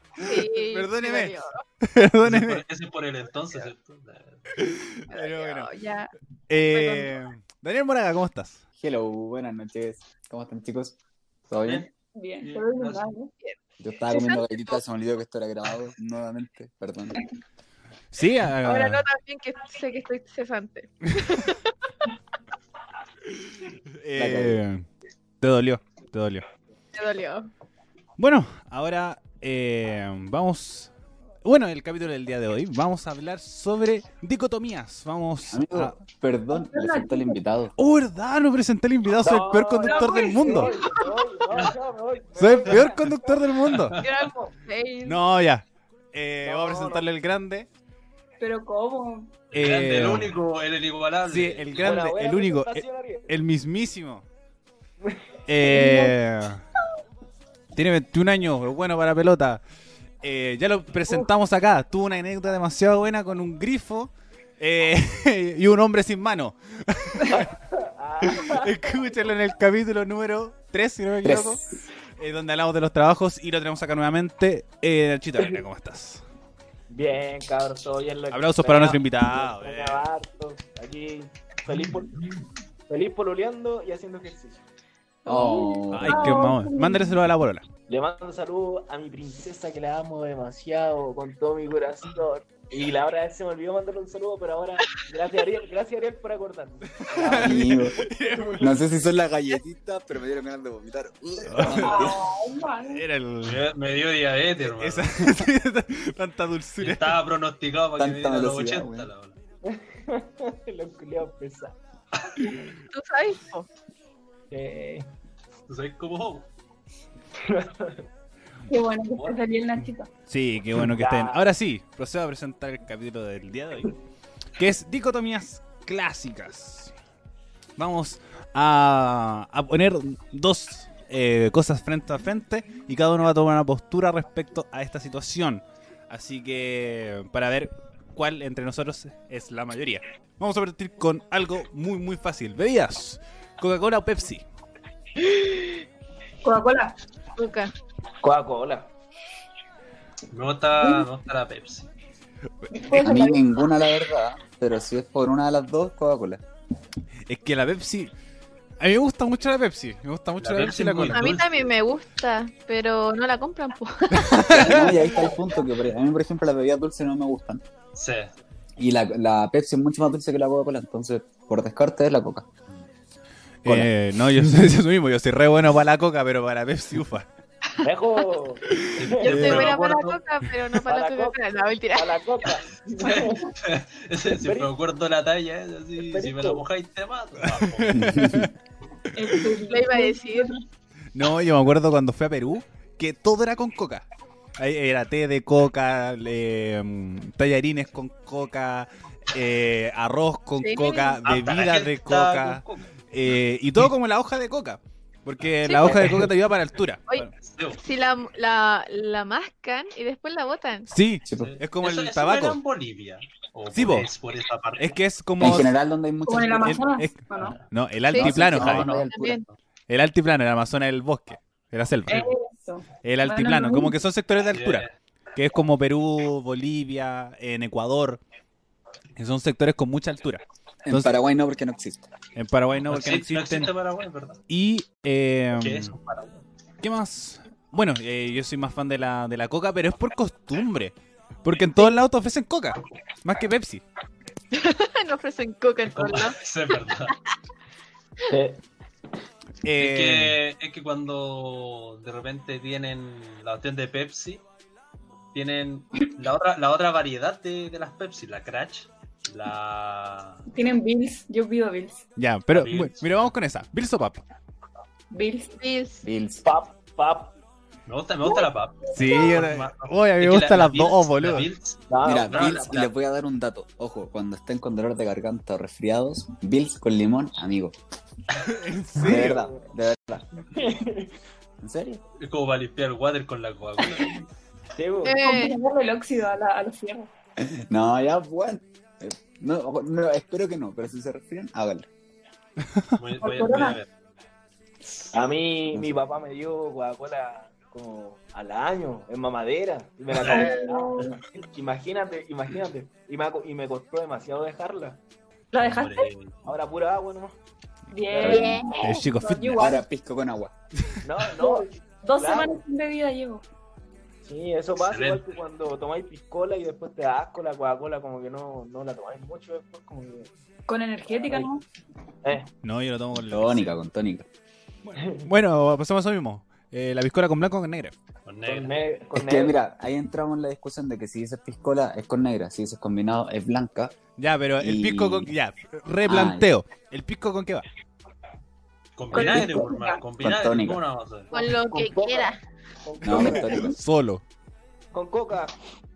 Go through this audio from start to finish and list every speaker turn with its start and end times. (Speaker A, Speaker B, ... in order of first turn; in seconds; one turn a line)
Speaker A: 0.2-1.6
Speaker B: 0.2-2.6
Speaker C: 2.2-4.4
Speaker B: 4.5-5.7
Speaker A: 5.1-6.1
Speaker B: 6.5-8.6
Speaker A: 6.7-7.1
Speaker D: 8.8-11.0
Speaker D: 11.5-11.9
Speaker C: 11.6-11.9
Speaker E: 12.1-13.3
Speaker C: 12.4-13.1
Speaker A: 13.4-14.8
Speaker D: 13.8-17.2
Speaker B: 18.1-19.0
Speaker A: 18.6-21.7
Speaker B: 23.3-24.8
Speaker D: 24.1-24.6
Speaker B: 25.4-26.4
Speaker A: 26.9-27.5
Speaker B: 28.2-30.9
Speaker B: 31.4-36.0
Speaker D: 35.5-37.7
Speaker E: 36.5-37.4
Speaker B: 37.8-40.7
Speaker F: 39.2-43.6
Speaker E: 39.8-40.8
Speaker B: 42.4-44.0
Speaker C: 43.7-44.2
Speaker A: 43.9-45.2
Speaker B: 45.0-47.7
Speaker F: 46.4-47.1
Speaker E: 48.4-49.3
Speaker C: 49.5-51.9
Speaker B: 49.5-50.4
Speaker B: 51.2-54.2
Speaker F: 51.8-53.3
Speaker F: 55.0-55.3
Speaker B: 55.5-56.6
Speaker E: 55.6-56.1
Speaker B: 57.7-59.6
Speaker B: 60.2-67.5
Speaker F: 67.3-68.8
Speaker B: 68.2-71.6
Speaker D: 71.2-71.7
Speaker B: 72.2-76.2
Speaker F: 76.9-82.4
Speaker B: 78.3-80.0
Speaker F: 82.9-84.6
Speaker D: 85.2-86.3
Speaker E: 85.3-87.2
Speaker B: 85.9-87.6
Speaker F: 87.9-98.7
Speaker B: 97.0-98.7
Speaker D: 97.2-98.0
Speaker D: 98.6-102.2
Speaker F: 101.4-101.9
Speaker B: 101.5-102.1
Speaker E: 101.8-103.0
Speaker B: 102.9-103.6
Speaker C: 103.4-105.3
Speaker B: 104.7-107.2
Speaker C: 106.8-109.4
Speaker D: 108.0-109.1
Speaker F: 109.6-111.8
Speaker A: 112.9-113.7
Speaker F: 114.5-115.0
Speaker C: 115.7-116.5
Speaker F: 117.4-118.0
Speaker E: 118.7-120.1
Speaker B: 120.3-123.9
Speaker F: 120.8-121.4
Speaker B: 124.6-126.9
Speaker B: 127.8-144.4
Speaker E: 146.4-146.9
Speaker A: 147.3-147.7
Speaker F: 148.2-148.9
Speaker C: 150.3-151.9
Speaker E: 150.8-151.1
Speaker E: 152.7-153.5
Speaker D: 152.9-156.4
Speaker B: 157.3-158.1
Speaker B: 158.8-161.3
Speaker C: 160.4-161.7
Speaker A: 161.1-164.6
Speaker B: 164.1-165.0
Speaker D: 164.3-167.6
Speaker C: 167.9-168.3
Speaker D: 168.8-172.5
Speaker B: 173.6-177.3
Speaker D: 173.6-173.9
Speaker F: 177.8-179.5
Speaker B: 178.6-179.7
Speaker C: 179.0-180.2
Speaker A: 179.2-182.2
Speaker F: 180.8-181.4
Speaker F: 181.9-183.4
Speaker C: 183.0-188.2
Speaker F: 184.3-184.7
Speaker F: 186.0-186.6
Speaker B: 187.4-188.5
Speaker D: 187.9-188.5
Speaker E: 189.1-190.6
Speaker A: 189.7-190.6
Speaker B: 191.1-194.1
Speaker B: 194.6-207.3
Speaker A: 200.6-201.2
Speaker C: 201.2-202.9
Speaker A: 205.6-206.1
Speaker C: 207.3-207.8
Speaker A: 207.8-210.9
Speaker B: 210.9-212.6
Speaker D: 211.2-211.5
Speaker C: 211.3-215.0
Speaker B: 213.7-214.1
Speaker B: 214.8-215.7
Speaker D: 215.4-216.8
Speaker E: 216.2-217.6
Speaker B: 216.6-219.1
Speaker A: 218.1-219.4
Speaker D: 218.1-219.2
Speaker C: 218.4-219.6
Speaker B: 219.9-222.3
Speaker E: 222.1-224.0
Speaker B: 223.0-228.2
Speaker C: 224.5-224.9
Speaker B: 229.2-231.1
Speaker D: 230.8-232.1
Speaker B: 232.3-233.7
Speaker C: 232.8-234.4
Speaker B: 234.5-235.9
Speaker C: 235.5-236.3
Speaker B: 236.8-243.8
Speaker A: 244.5-246.3
Speaker C: 245.9-247.2
Speaker F: 248.3-248.6
Speaker B: 249.6-250.3
Speaker C: 249.8-254.4
Speaker C: 255.3-260.4
Speaker E: 260.5-262.0
Speaker B: 262.1-264.2
Speaker C: 262.5-263.3
Speaker E: 265.1-265.6
Speaker A: 265.6-266.0
Speaker D: 266.0-266.4
Speaker F: 266.4-267.3
Speaker C: 267.9-272.9
Speaker B: 268.9-271.5
Speaker F: 271.9-272.8
Speaker D: 272.0-277.7
Speaker B: 278.4-279.5
Speaker D: 278.9-280.4
Speaker F: 279.1-279.7
Speaker F: 280.5-281.1
Speaker D: 281.6-282.0
Speaker C: 282.2-284.2
Speaker F: 284.8-285.2
Speaker A: 285.0-285.6
Speaker E: 285.2-287.1
Speaker D: 287.4-291.9
Speaker C: 293.0-293.9
Speaker E: 293.2-293.8
Speaker F: 295.1-305.0
Speaker D: 295.7-296.0
Speaker C: 300.1-300.5
Speaker E: 300.2-301.1
Speaker A: 300.3-300.9
Speaker E: 305.5-306.1
Speaker C: 305.6-306.3
Speaker F: 306.4-307.4
Speaker E: 307.9-309.8
Speaker F: 308.1-308.5
Speaker D: 308.2-308.6
Speaker A: 308.2-308.9
Speaker B: 308.8-309.7
Speaker D: 309.5-310.5
Speaker F: 311.0-312.6
Speaker E: 311.4-313.4
Speaker F: 314.2-320.3
Speaker C: 314.8-315.2
Speaker E: 320.7-321.6
Speaker F: 321.1-321.5
Speaker F: 322.2-322.5
Speaker B: 322.6-323.7
Speaker D: 323.1-324.2
Speaker B: 324.8-327.9
Speaker F: 324.9-325.2
Speaker C: 328.2-328.8
Speaker F: 328.4-329.5
Speaker D: 329.1-333.9
Speaker B: 334.2-337.6
Speaker D: 334.6-335.3
Speaker D: 336.0-336.5
Speaker C: 339.0-341.3
Speaker E: 339.1-340.0
Speaker F: 339.2-339.4
Speaker D: 340.2-340.8
Speaker F: 341.3-342.3
Speaker A: 341.3-342.4
Speaker F: 342.9-343.7
Speaker D: 343.0-343.8
Speaker B: 343.1-344.2
Speaker F: 344.9-345.5